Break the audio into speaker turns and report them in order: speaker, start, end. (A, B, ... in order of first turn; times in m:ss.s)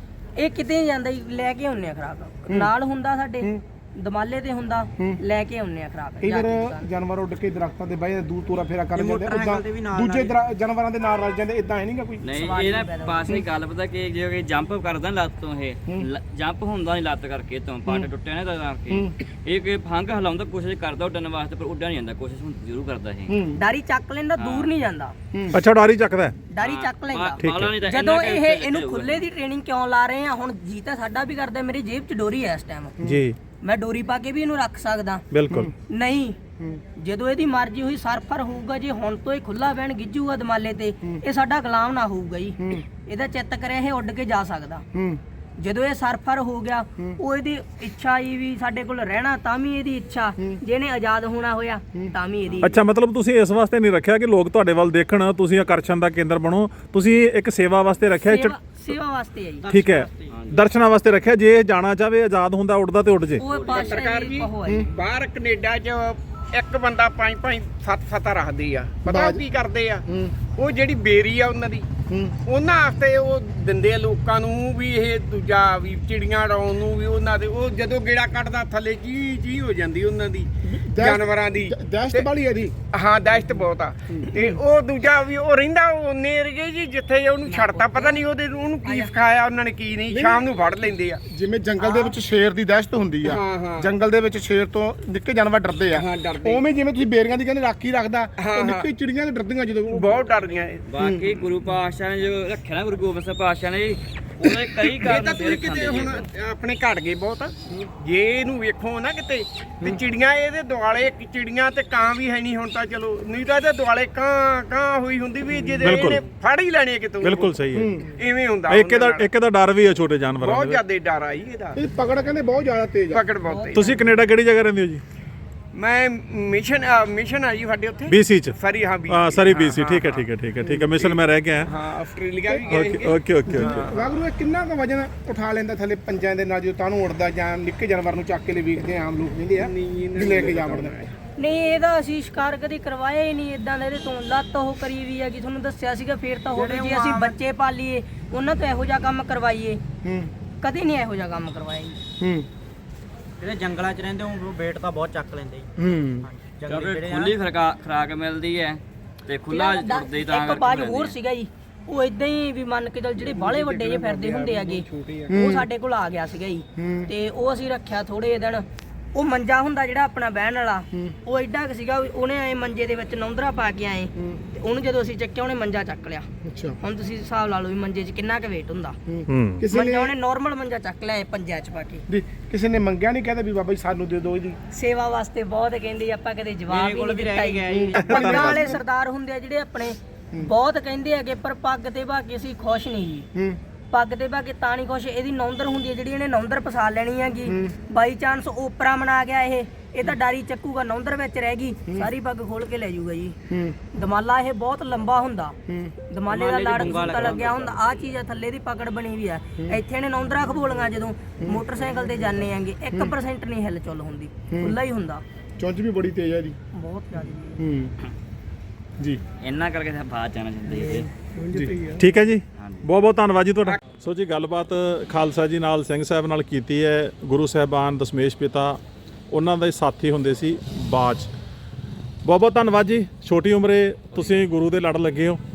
0:00.4-0:06.9 A
0:06.2-0:12.2 B
0:08.9-0:10.4 C
0:12.2-0:23.3 D
0:12.3-0:13.2 A
0:23.3-0:23.6 B
0:23.6-0:25.1 A
0:24.4-0:24.7 D
0:25.3-0:25.6 B
0:25.5-0:26.4 E
0:26.5-0:33.0 A
0:26.6-0:29.2 D
0:27.4-0:27.7 E
0:33.5-0:35.2 A
0:35.3-0:35.7 E
0:35.8-0:36.4 A
0:36.9-0:44.8 A
0:44.9-0:45.2 B
0:45.6-0:52.8 A
0:52.7-0:58.5 E
0:58.2-0:59.7 A
0:59.6-1:00.4 C
0:59.7-1:03.4 E
1:00.3-1:00.7 D
1:03.4-1:04.9 A
1:03.5-1:03.8 D
1:03.6-1:11.9 F
1:09.0-1:09.4 B
1:10.1-1:10.4 B
1:12.1-1:12.4 B
1:12.4-1:22.3 F
1:20.6-1:22.8 B
1:22.9-1:31.2 F
1:24.1-1:24.6 B
1:27.4-1:28.2 A
1:28.8-1:29.1 A
1:30.1-1:30.5 B
1:31.3-1:40.2 B
1:31.8-1:32.2 A
1:33.2-1:33.9 F
1:35.9-1:36.6 F
1:38.4-1:38.9 F
1:39.9-1:41.5 F
1:40.9-1:46.3 D
1:44.8-1:57.5 F
1:55.6-1:56.1 B
1:55.8-1:56.2 E
1:57.2-1:57.9 E
1:57.7-1:58.2 B
1:58.2-1:59.3 F
1:58.7-2:00.8 E
2:00.4-2:01.8 F
2:01.8-2:03.2 B
2:03.1-2:04.1 F
2:03.5-2:04.1 A
2:03.7-2:05.0 E
2:05.7-2:10.3 F
2:08.1-2:08.6 E
2:09.1-2:11.7 E
2:10.8-2:14.1 F
2:12.7-2:13.7 E
2:13.5-2:21.0 B
2:19.6-2:21.1 F
2:21.4-2:29.8 A
2:26.5-2:27.4 C
2:30.0-2:30.3 B
2:30.6-2:32.0 A
2:32.2-2:32.5 B
2:33.4-2:37.3 C
2:35.8-2:36.3 B
2:36.7-2:41.1 D
2:39.5-2:56.3 A
2:43.2-2:45.3 F
2:45.3-2:45.7 B
2:46.8-2:47.1 B
2:54.2-2:54.4 B
2:56.4-2:56.8 B
2:56.8-2:59.0 A
2:59.1-3:00.1 B
2:59.3-2:59.6 E
2:59.7-3:02.0 A
3:02.1-3:04.6 B
3:04.7-3:13.3 A
3:06.7-3:08.6 C
3:07.7-3:08.8 B
3:13.3-3:13.6 B
3:13.9-3:23.4 A
3:17.5-3:17.8 B
3:23.5-3:23.8 B
3:23.9-3:25.6 A
3:25.7-3:25.9 B
3:26.1-3:35.2 A
3:26.3-3:27.8 D
3:34.5-3:34.8 B
3:35.6-3:36.6 B
3:36.7-3:37.6 A
3:37.6-3:37.9 B
3:39.4-3:41.1 D
3:41.3-3:42.0 C
3:41.5-3:41.8 B
3:42.0-3:48.8 E
3:42.6-3:42.9 D
3:49.3-3:51.3 E
3:52.2-3:55.4 E